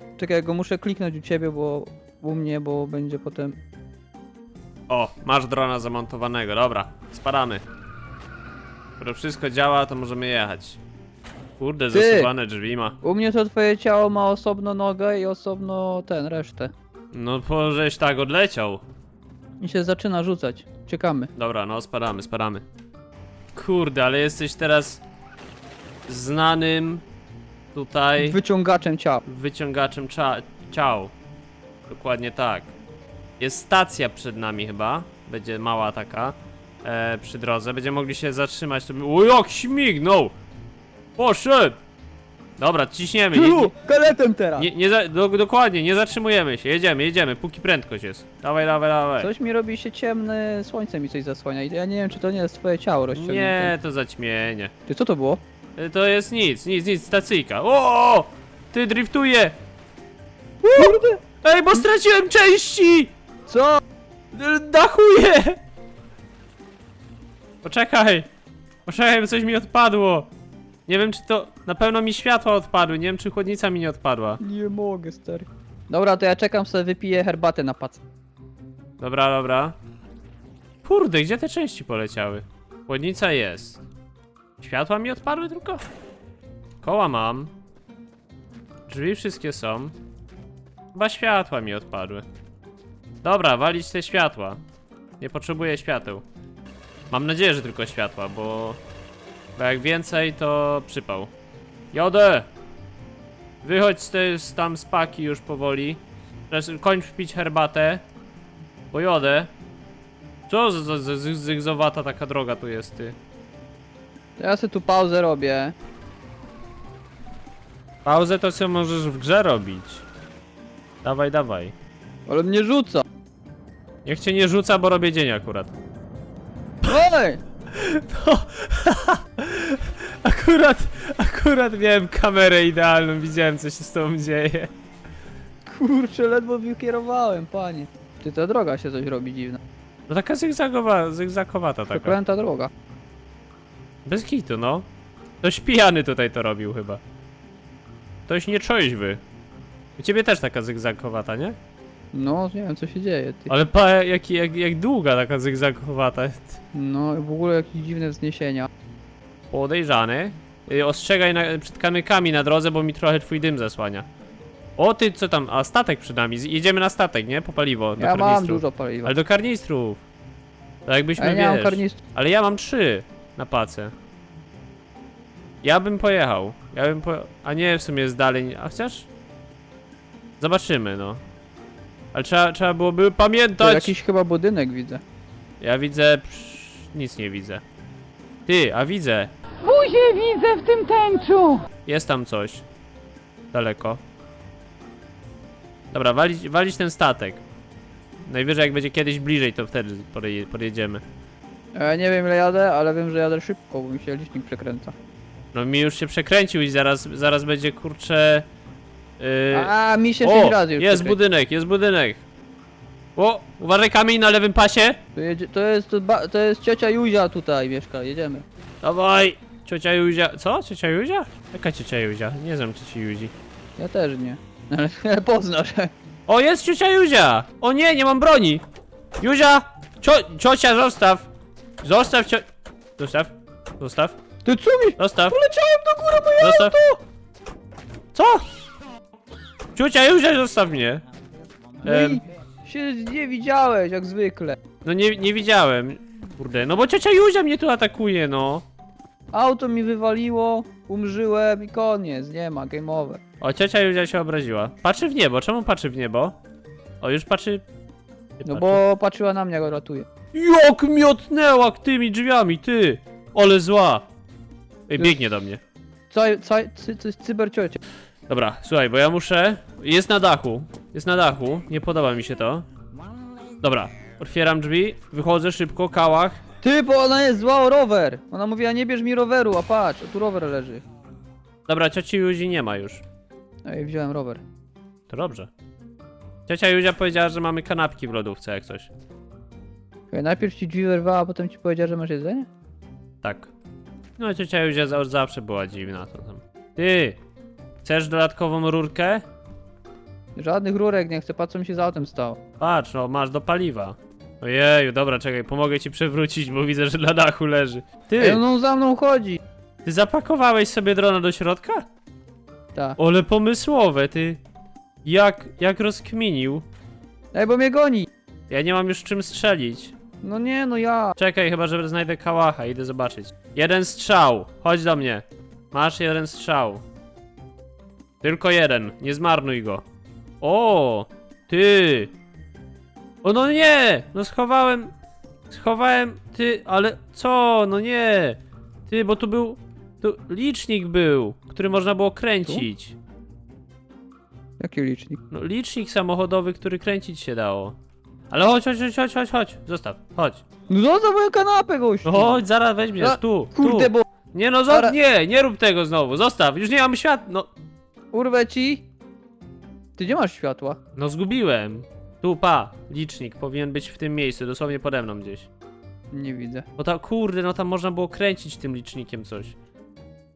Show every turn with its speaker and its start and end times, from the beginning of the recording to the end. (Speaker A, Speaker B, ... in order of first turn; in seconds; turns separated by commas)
Speaker A: 0.2-3.6, Speaker B: 4.9-7.6, Speaker B: 9.0-10.8, Speaker B: 11.6-13.0, Speaker A: 11.9-12.3, Speaker A: 13.0-16.7, Speaker B: 17.1-18.8, Speaker A: 19.6-21.3, Speaker B: 21.4-22.6, Speaker B: 23.5-25.0, Speaker B: 26.1-27.0, Speaker B: 27.7-28.4, Speaker A: 28.2-29.2, Speaker B: 29.2-31.1, Speaker B: 31.9-32.7, Speaker B: 33.4-40.3, Speaker B: 41.2-41.8, Speaker B: 42.6-43.7, Speaker A: 43.3-44.7, Speaker B: 44.6-49.3, Speaker A: 49.2-53.7, Speaker B: 53.1-54.7, Speaker A: 54.9-55.4, Speaker B: 55.8-59.5, Speaker B: 60.6-63.1, Speaker A: 60.7-61.2, Speaker A: 63.5-63.8, Speaker B: 64.3-65.6, Speaker B: 67.6-68.3, Speaker B: 68.8-70.3, Speaker B: 70.9-74.4, Speaker A: 74.4-78.0, Speaker B: 79.0-79.8, Speaker B: 80.8-83.8, Speaker B: 84.6-85.8, Speaker B: 86.8-87.5, Speaker B: 88.9-89.9, Speaker B: 90.9-92.2, Speaker B: 93.2-94.6, Speaker B: 95.2-96.2, Speaker B: 97.1-98.8, Speaker B: 99.5-101.3, Speaker B: 101.9-102.5, Speaker B: 103.6-108.0, Speaker B: 108.9-109.5, Speaker B: 110.5-113.2, Speaker A: 114.4-115.7, Speaker B: 118.0-120.0, Speaker B: 121.0-121.7, Speaker A: 122.3-123.0, Speaker B: 124.0-125.7, Speaker A: 126.8-127.4, Speaker B: 127.7-134.7, Speaker A: 135.7-139.6, Speaker B: 140.1-142.2, Speaker A: 141.9-142.7, Speaker B: 144.0-144.8, Speaker B: 145.4-147.0, Speaker B: 148.3-149.2, Speaker B: 150.0-151.6, Speaker A: 152.1-153.5, Speaker B: 153.5-156.6, Speaker A: 156.7-158.7, Speaker B: 159.5-164.1, Speaker B: 164.8-170.0, Speaker A: 168.0-169.1, Speaker B: 170.8-173.9, Speaker A: 171.2-172.0, Speaker B: 175.6-179.1, Speaker B: 180.4-181.2, Speaker B: 182.1-183.9, Speaker A: 183.6-185.0, Speaker B: 185.6-187.6, Speaker B: 188.5-189.3, Speaker C: 189.6-191.6, Speaker B: 191.8-192.6, Speaker B: 193.5-194.0, Speaker B: 195.9-197.4, Speaker B: 198.2-201.0, Speaker A: 201.7-204.9, Speaker B: 205.5-208.4, Speaker B: 209.2-212.2, Speaker A: 209.5-211.2, Speaker B: 213.2-215.0, Speaker A: 215.1-218.4, Speaker B: 218.8-223.3, Speaker A: 223.8-225.9, Speaker B: 226.3-228.6, Speaker B: 229.2-231.3, Speaker B: 231.8-232.4, Speaker B: 233.0-234.2, Speaker A: 234.4-237.0, Speaker B: 235.0-235.4, Speaker B: 236.4-236.8, Speaker B: 238.1-238.4, Speaker B: 239.8-241.0, Speaker B: 241.8-242.2, Speaker A: 241.8-244.6, Speaker B: 244.8-248.6, Speaker A: 249.3-253.2, Speaker B: 253.4-256.4, Speaker B: 257.0-257.6, Speaker B: 258.4-258.8, Speaker A: 258.4-260.1, Speaker B: 260.3-264.0, Speaker B: 264.9-265.6, Speaker A: 266.1-267.8, Speaker B: 268.3-272.6, Speaker B: 273.6-276.4, Speaker A: 276.6-280.8, Speaker B: 281.6-283.0, Speaker A: 283.6-284.4, Speaker B: 285.1-285.5, Speaker B: 286.5-288.9, Speaker A: 290.1-292.5, Speaker B: 293.2-293.5, Speaker B: 294.2-297.2, Speaker B: 297.8-299.2, Speaker A: 300.4-302.4, Speaker B: 302.6-308.4, Speaker A: 308.2-309.4, Speaker B: 309.8-311.8, Speaker B: 313.0-314.4, Speaker B: 315.0-316.6, Speaker A: 317.3-318.1, Speaker B: 318.5-319.9, Speaker A: 320.2-321.1, Speaker B: 321.2-326.8, Speaker B: 328.2-329.8, Speaker B: 330.4-332.1, Speaker B: 333.2-334.9, Speaker B: 335.5-342.9, Speaker A: 344.6-345.2, Speaker B: 345.3-347.8, Speaker B: 348.3-350.4, Speaker A: 350.7-352.4, Speaker B: 352.0-357.5, Speaker A: 353.0-354.1, Speaker A: 354.7-354.9, Speaker A: 358.1-358.9, Speaker A: 360.0-360.8, Speaker B: 360.9-365.5, Speaker A: 366.1-366.6, Speaker B: 366.8-369.5